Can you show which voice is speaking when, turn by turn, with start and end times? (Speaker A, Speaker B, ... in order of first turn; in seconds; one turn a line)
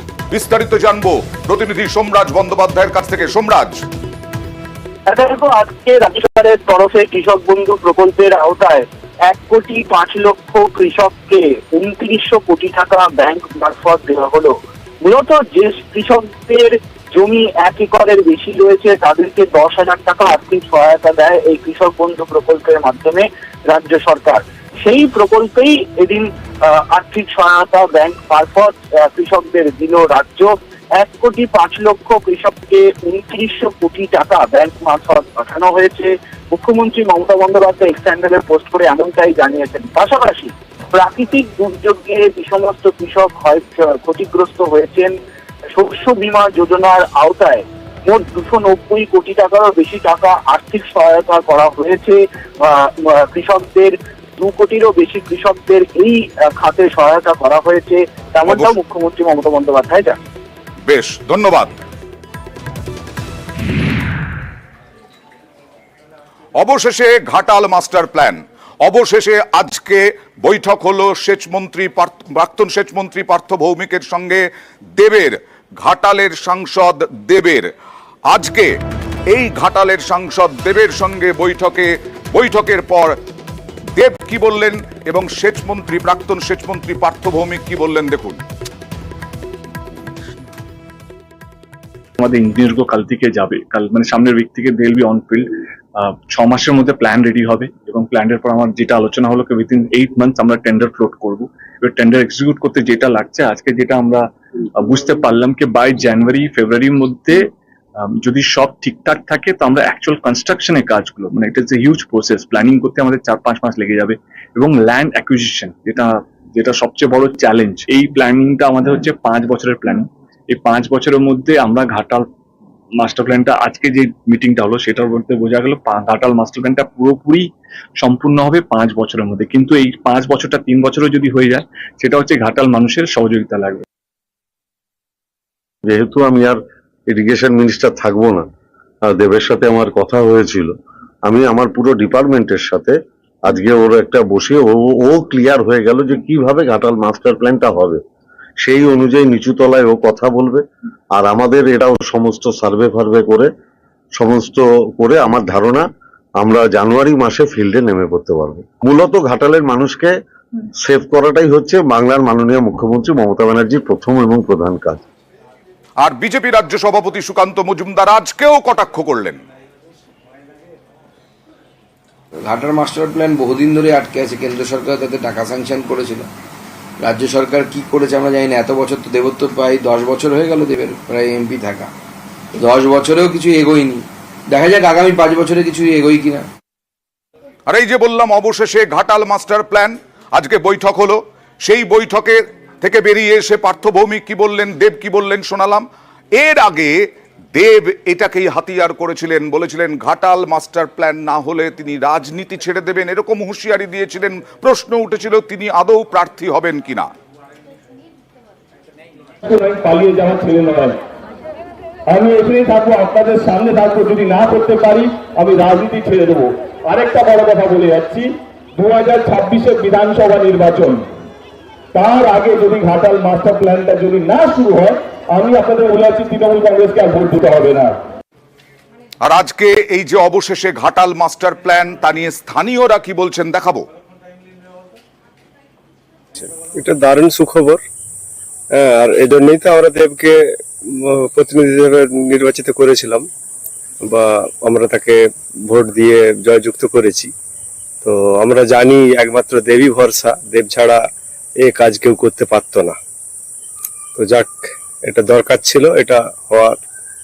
Speaker A: 0.3-3.8
Speaker B: 5.1-45.1
Speaker B: 45.7-60.1
Speaker A: 58.5-58.7
Speaker A: 60.8-61.7
Speaker A: 66.6-74.5
Speaker A: 75.0-77.7
Speaker A: 78.3-78.7
Speaker A: 79.3-83.1
Speaker A: 84.0-88.4
Speaker C: 92.2-104.2
Speaker C: 104.8-107.5
Speaker C: 108.1-122.3
Speaker C: 123.0-133.8
Speaker D: 135.8-136.6
Speaker D: 137.1-138.4
Speaker D: 139.1-140.7
Speaker D: 141.3-148.0
Speaker D: 148.6-153.5
Speaker D: 154.2-155.8
Speaker D: 156.4-160.1
Speaker D: 160.8-165.0
Speaker A: 166.0-169.4
Speaker E: 172.4-176.3
Speaker E: 177.0-181.9
Speaker E: 182.6-186.5
Speaker A: 187.7-207.1
Speaker F: 209.4-210.9
Speaker F: 212.1-221.1
Speaker F: 221.9-227.9
Speaker A: 229.2-233.8
Speaker G: 236.3-237.8
Speaker G: 238.7-243.2
Speaker G: 244.0-247.3
Speaker G: 248.0-251.1
Speaker G: 251.6-253.0
Speaker G: 254.2-256.8